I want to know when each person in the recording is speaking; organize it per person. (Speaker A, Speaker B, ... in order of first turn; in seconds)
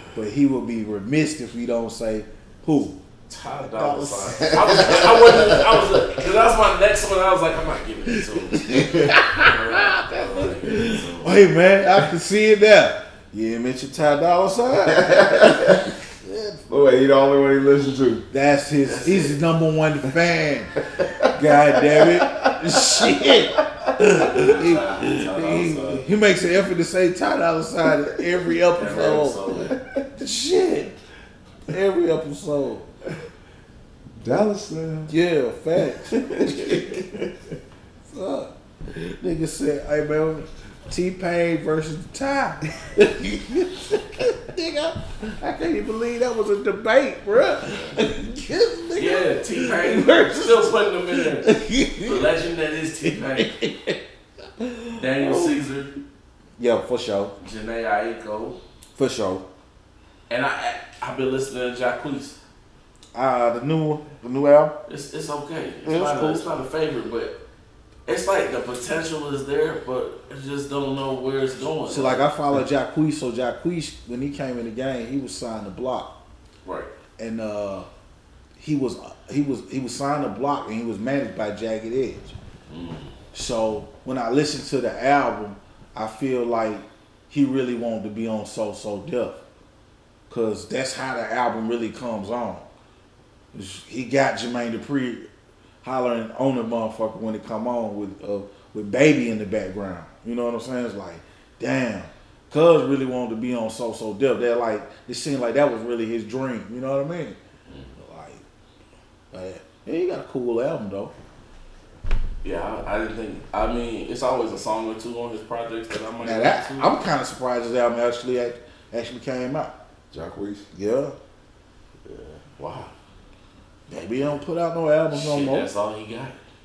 Speaker A: 0.1-3.0, 3.8-5.6, 8.5-16.6, 18.3-29.6, 30.1-30.9, 31.7-32.9, 35.1-37.0, 38.1-52.2, 53.0-54.0, 54.6-55.6, 56.6-57.3, 58.9-59.4, 63.1-64.8, 65.8-66.5, 71.9-76.1, 77.2-77.9, 78.6-82.3, 83.3-89.4, 90.3-92.6, 93.5-95.3, 95.8-107.4, 108.0-108.4, 109.3-111.1, 116.2-119.7, 120.7-121.2, 123.9-125.7
Speaker B: 3.3-11.4, 18.8-19.4, 24.1-26.1, 28.7-29.8, 47.6-48.0, 48.9-53.5, 55.0-55.9, 57.4-58.6, 60.3-62.4, 64.8-67.4, 68.1-72.3, 76.6-76.9, 82.7-83.2, 112.4-117.0, 122.0-122.9, 125.1-126.4
Speaker C: 8.7-9.1, 14.8-15.9, 16.7-18.2, 21.0-23.1, 29.8-30.0, 34.2-35.1, 36.0-37.3, 120.1-120.7